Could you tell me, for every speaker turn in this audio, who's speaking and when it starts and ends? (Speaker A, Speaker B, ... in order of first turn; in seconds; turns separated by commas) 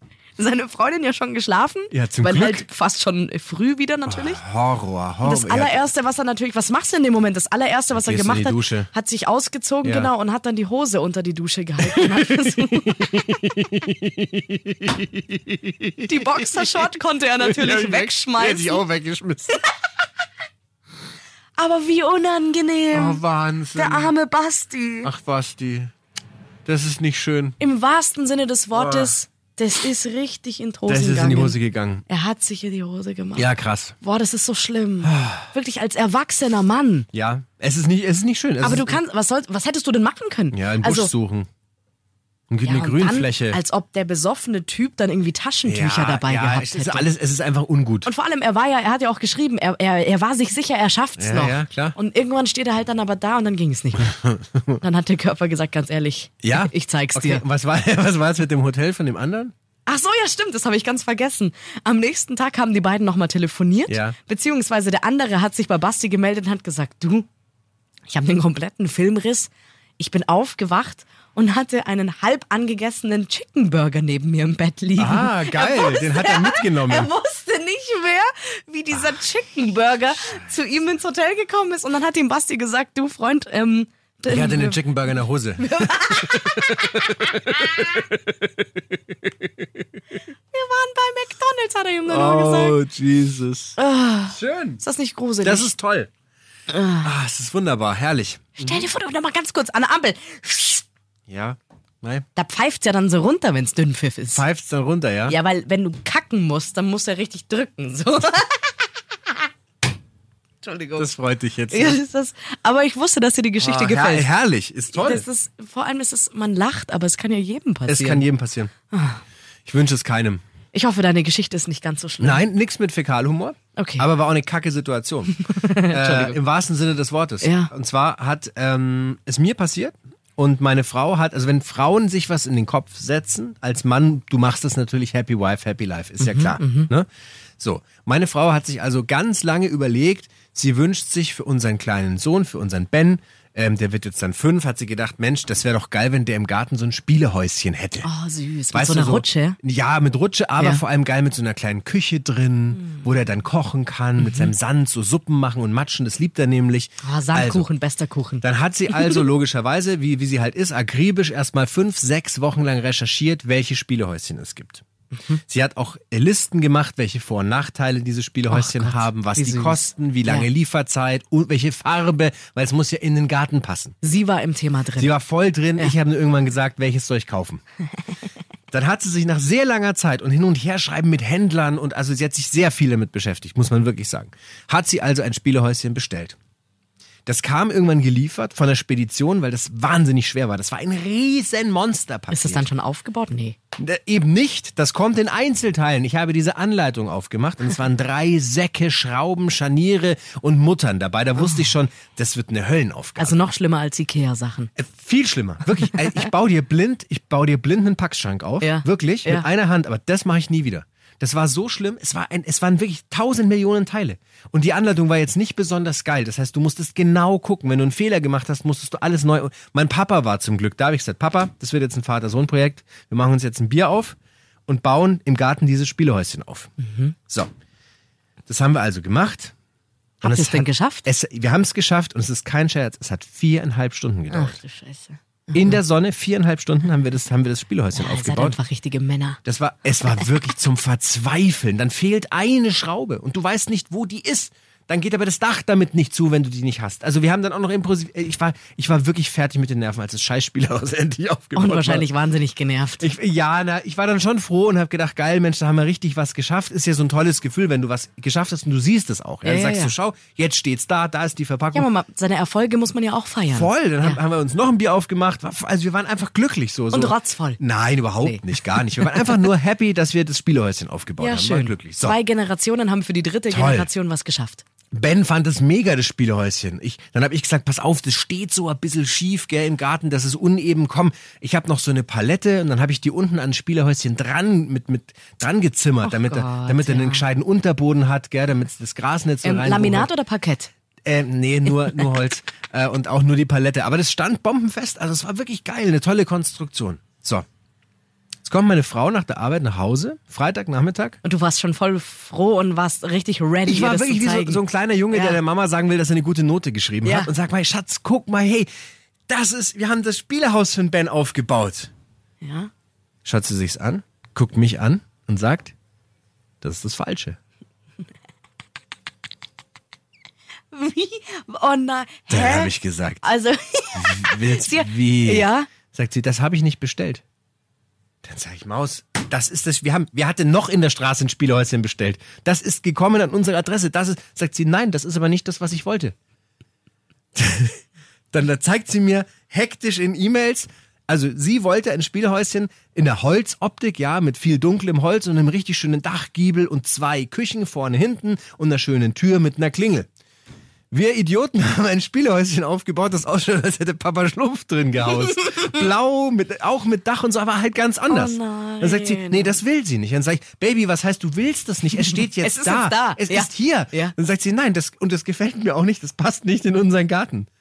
Speaker A: 0.4-4.4, Speaker B: 1.9-2.7, Speaker B: 4.1-5.8, Speaker A: 5.2-13.4, Speaker B: 7.9-8.9, Speaker B: 9.8-10.1, Speaker B: 11.8-16.8, Speaker A: 16.1-18.8, Speaker B: 17.4-19.6, Speaker A: 21.6-23.2, Speaker B: 22.9-24.1, Speaker A: 23.7-25.1, Speaker B: 25.0-25.9, Speaker B: 26.6-27.6, Speaker A: 27.6-31.6, Speaker B: 28.7-29.2, Speaker B: 30.9-32.0, Speaker A: 32.1-33.5, Speaker B: 33.4-33.9, Speaker A: 34.0-37.1, Speaker B: 35.0-35.5, Speaker B: 37.1-39.0, Speaker A: 38.6-41.1, Speaker B: 40.5-41.5, Speaker B: 42.5-43.6, Speaker A: 42.6-47.1, Speaker B: 45.6-48.1, Speaker A: 48.0-54.2, Speaker B: 51.2-52.0, Speaker A: 54.8-57.4, Speaker B: 56.4-59.5, Speaker A: 59.9-67.3, Speaker B: 63.9-64.2, Speaker A: 68.1-87.0, Speaker B: 75.0-77.1, Speaker B: 84.3-88.6, Speaker A: 90.5-92.8, Speaker B: 92.1-94.8, Speaker A: 93.8-95.7, Speaker B: 95.4-96.1, Speaker A: 96.7-97.1, Speaker B: 97.0-98.8, Speaker A: 98.6-100.8, Speaker B: 101.3-102.2, Speaker A: 102.3-104.4, Speaker B: 104.3-105.4, Speaker A: 105.3-108.9, Speaker A: 110.6-111.1, Speaker B: 111.0-112.0, Speaker A: 111.7-114.3, Speaker B: 113.6-115.2, Speaker A: 114.9-118.3, Speaker B: 117.9-118.7, Speaker A: 118.9-119.2, Speaker B: 119.7-120.4, Speaker A: 120.7-122.4, Speaker B: 122.2-137.1, Speaker A: 123.8-124.0, Speaker A: 125.4-126.4, Speaker A: 127.4-127.7, Speaker A: 136.2-136.9, Speaker B: 137.6-148.1, Speaker A: 148.0-149.6, Speaker B: 148.7-157.7, Speaker A: 150.6-150.8, Speaker A: 154.2-154.5, Speaker A: 157.0-159.2, Speaker B: 158.4-164.8, Speaker B: 165.4-173.9, Speaker A: 168.5-170.5, Speaker A: 174.0-175.1, Speaker B: 175.0-177.6, Speaker B: 178.7-186.4, Speaker B: 187.2-192.7, Speaker A: 192.3-193.6, Speaker B: 193.8-203.5, Speaker A: 201.4-201.7, Speaker A: 203.2-204.7, Speaker B: 204.8-226.7, Speaker A: 208.6-209.5, Speaker A: 226.8-227.1, Speaker B: 228.5-229.5, Speaker A: 230.2-231.1, Speaker B: 230.2-234.6, Speaker A: 234.3-235.8, Speaker B: 235.5-238.6, Speaker A: 237.9-239.4, Speaker B: 239.4-252.1, Speaker A: 251.6-253.1, Speaker B: 253.0-261.9, Speaker A: 259.4-259.9, Speaker A: 261.7-264.2, Speaker B: 263.5-272.2, Speaker A: 266.9-267.6, Speaker A: 268.2-269.4, Speaker A: 271.2-274.6, Speaker B: 273.5-273.9, Speaker B: 274.9-290.1, Speaker A: 286.0-287.2, Speaker A: 289.4-290.7, Speaker B: 291.1-297.4, Speaker B: 298.4-301.2, Speaker A: 301.2-305.4, Speaker B: 303.6-308.7, Speaker A: 307.0-307.3, Speaker B: 309.3-311.9, Speaker A: 312.4-312.7, Speaker B: 313.2-315.7, Speaker B: 316.6-317.4, Speaker A: 320.7-325.7, Speaker B: 322.3-323.2, Speaker B: 323.9-327.2, Speaker B: 328.2-336.1, Speaker B: 337.3-337.8, Speaker B: 338.3-350.1, Speaker B: 350.9-367.5, Speaker A: 358.1-359.6, Speaker A: 362.0-364.1